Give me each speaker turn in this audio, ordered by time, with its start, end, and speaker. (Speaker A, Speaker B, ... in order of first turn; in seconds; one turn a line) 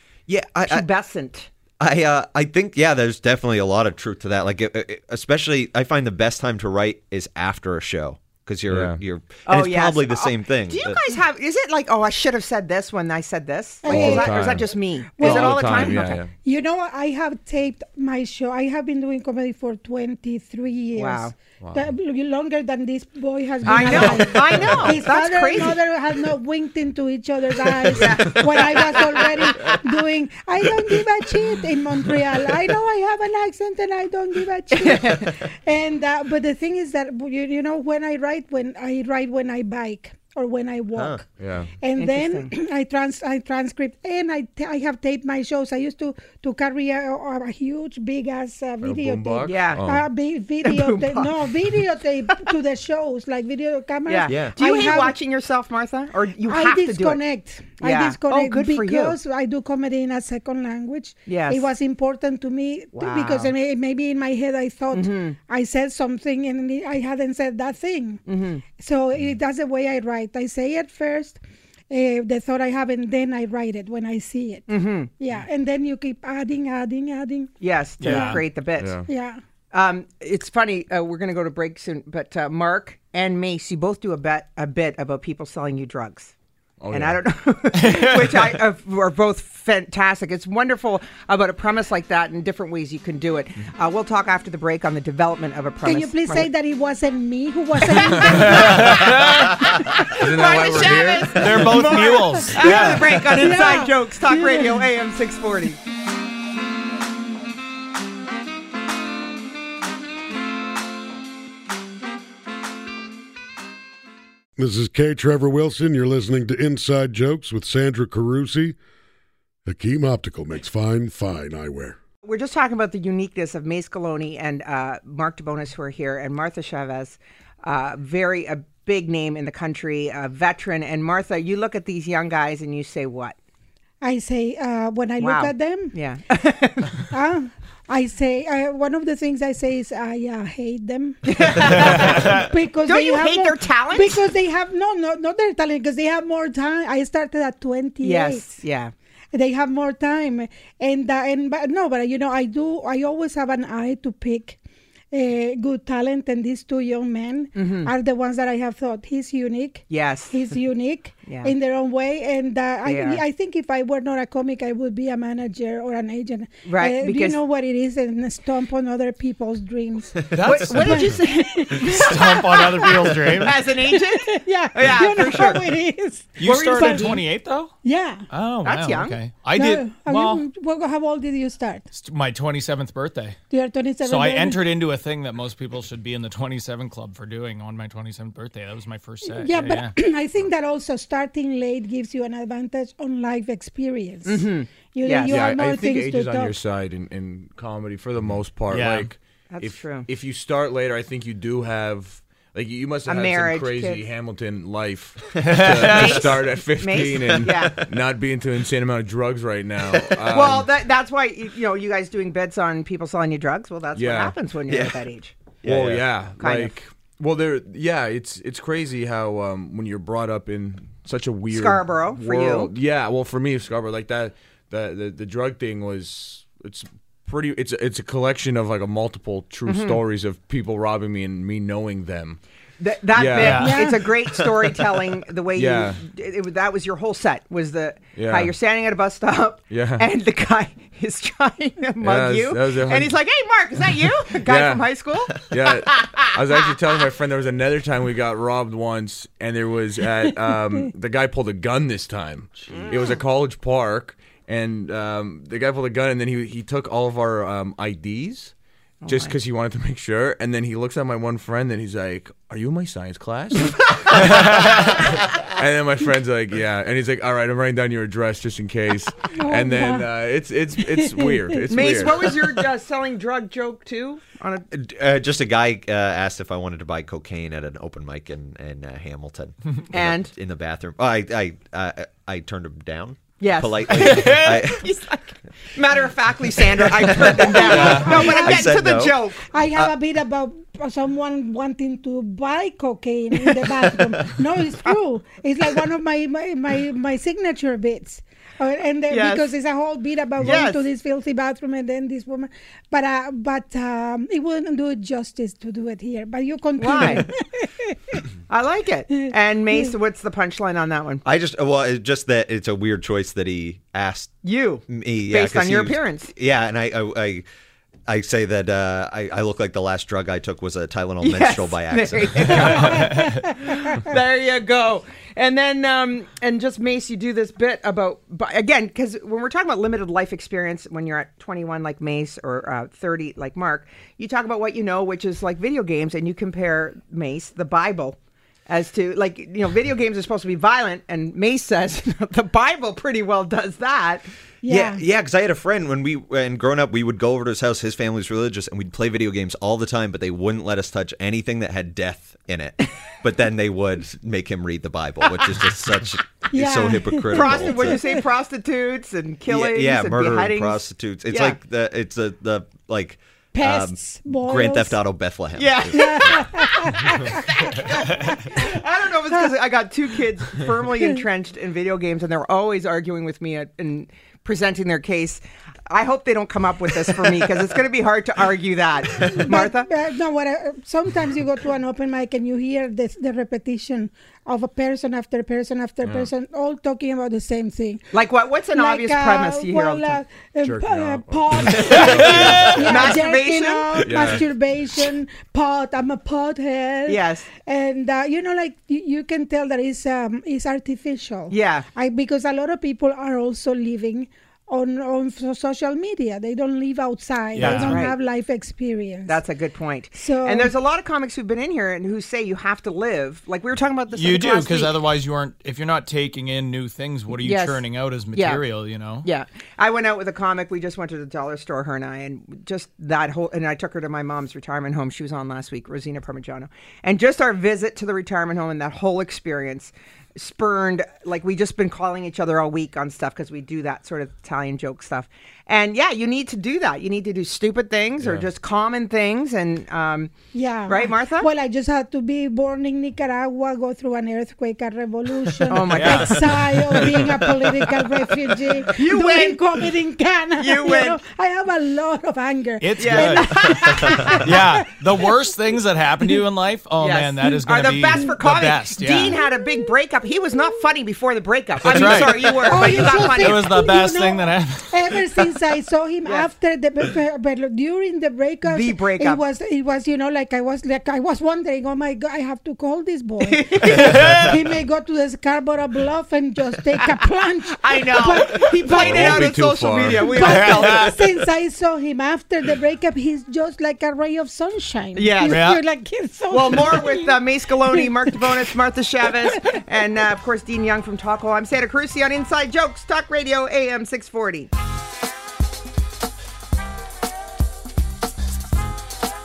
Speaker A: 0.3-0.8
Speaker B: 0.7-1.5
Speaker A: 1.8-11.0
Speaker C: 8.7-9.0
Speaker B: 9.4-16.2
Speaker D: 13.8-14.6
Speaker C: 13.8-16.3
Speaker D: 15.2-41.2
Speaker B: 20.9-21.3
Speaker C: 21.6-21.9
Speaker C: 23.6-25.0
Speaker B: 23.7-25.8
Speaker B: 27.7-29.8
Speaker B: 34.7-35.4
Speaker A: 40.9-41.2
Speaker C: 41.4-41.7
Speaker D: 41.8-55.1
Speaker B: 42.0-42.5
Speaker C: 48.8-50.0
Speaker B: 49.5-49.8
Speaker B: 50.6-51.3
Speaker B: 54.1-57.2
Speaker A: 54.3-54.5
Speaker D: 56.5-71.4
Speaker B: 57.8-59.2
Speaker B: 61.2-61.7
Speaker B: 62.9-63.5
Speaker B: 64.9-65.4
Speaker B: 68.3-68.6
Speaker D: 71.9-77.5
Speaker B: 74.7-75.1
Speaker B: 77.6-79.0
Speaker E: 78.0-78.3
Speaker C: 78.0-79.1
Speaker D: 78.0-78.4
Speaker D: 79.0-79.4
Speaker B: 79.7-86.3
Speaker C: 86.8-87.2
Speaker B: 86.9-96.5
Speaker E: 87.8-88.6
Speaker D: 95.8-99.1
Speaker B: 97.9-105.8
Speaker C: 98.1-99.0
Speaker E: 98.4-99.6
Speaker C: 100.0-102.0
Speaker E: 101.2-103.5
Speaker D: 102.0-104.8
Speaker F: 114.6-118.8
Speaker F: 119.7-122.0
Speaker B: 122.2-133.3
Speaker D: 134.0-135.9
Speaker B: 135.2-137.1
Speaker D: 137.1-148.4
Speaker B: 141.2-144.2
Speaker B: 148.0-148.9
Speaker D: 149.3-154.6
Speaker D: 155.1-172.9
Speaker B: 157.5-157.9
Speaker B: 159.9-160.4
Speaker B: 161.2-161.5
Speaker B: 162.8-163.2
Speaker B: 166.7-167.4
Speaker E: 170.3-171.2
Speaker B: 170.4-175.7
Speaker E: 171.9-173.6
Speaker D: 173.8-177.2
Speaker E: 176.4-177.7
Speaker B: 176.4-177.2
Speaker D: 177.8-178.2
Speaker E: 178.3-180.4
Speaker B: 178.6-179.2
Speaker D: 179.5-181.8
Speaker E: 181.9-183.4
Speaker D: 183.5-184.6
Speaker E: 184.0-189.9
Speaker D: 189.2-196.6
Speaker B: 194.2-195.4
Speaker C: 195.2-210.7
Speaker E: 198.7-199.1
Speaker B: 199.5-200.1
Speaker B: 203.1-204.1
Speaker E: 205.3-206.2
Speaker B: 205.7-207.9
Speaker B: 210.3-215.3
Speaker C: 213.9-214.3
Speaker A: 214.7-215.0
Speaker A: 215.6-216.1
Speaker C: 215.7-232.4
Speaker B: 216.4-216.7
Speaker B: 221.5-222.7
Speaker B: 229.7-230.0
Speaker B: 232.8-246.5
Speaker C: 233.1-233.9
Speaker E: 233.3-233.7
Speaker D: 233.5-234.0
Speaker C: 235.5-236.0
Speaker C: 238.1-238.5
Speaker C: 239.7-240.1
Speaker C: 242.0-243.2
Speaker C: 244.4-258.5
Speaker B: 252.7-253.2
Speaker B: 259.0-259.3
Speaker C: 259.1-272.4
Speaker D: 269.3-270.1
Speaker D: 271.0-271.7
Speaker B: 271.7-274.6
Speaker A: 274.7-284.9
Speaker B: 279.9-280.3
Speaker B: 283.4-289.5
Speaker A: 286.8-289.9
Speaker D: 287.4-308.2
Speaker B: 293.4-294.9
Speaker B: 299.1-299.5
Speaker B: 300.4-300.8
Speaker B: 306.8-307.3
Speaker B: 308.5-311.2
Speaker A: 311.2-314.4
Speaker B: 314.4-316.3
Speaker A: 314.9-317.4
Speaker A: 318.1-323.1
Speaker B: 321.2-338.2
Speaker D: 322.7-323.5
Speaker B: 338.7-344.2
Speaker D: 344.6-345.0
Speaker A: 344.7-358.0
Speaker D: 356.5-357.9
Speaker B: 357.3-361.6
Speaker A: 359.5-366.4
Speaker D: 363.5-364.9
Speaker B: 365.6-379.9
Speaker D: 365.9-367.4
Speaker D: 368.2-368.7
Speaker D: 379.2-388.1
Speaker B: 388.1-390.2
Speaker D: 388.7-409.4
Speaker C: 390.6-393.1
Speaker B: 391.9-394.4
Speaker E: 392.0-392.8
Speaker C: 394.0-394.4
Speaker B: 397.1-397.4
Speaker B: 401.5-401.9
Speaker E: 407.6-408.0
Speaker B: 407.6-408.2
Speaker B: 409.3-414.9
Speaker D: 410.1-410.7
Speaker E: 414.1-419.3
Speaker B: 417.4-417.8
Speaker B: 418.3-418.6
Speaker B: 419.2-440.3
Speaker C: 438.2-438.5
Speaker D: 440.5-454.8
Speaker B: 440.9-441.5
Speaker B: 445.7-447.2
Speaker E: 445.9-446.4
Speaker B: 448.8-449.9
Speaker B: 450.6-451.2
Speaker E: 452.8-459.4
Speaker B: 453.0-454.5
Speaker B: 457.0-463.7
Speaker E: 461.8-464.9
Speaker D: 461.9-479.6
Speaker B: 468.6-469.4
Speaker B: 473.4-474.5
Speaker B: 477.7-481.2
Speaker C: 478.9-480.7
Speaker D: 480.1-488.5
Speaker B: 485.1-485.7
Speaker E: 485.5-485.8
Speaker B: 486.5-494.7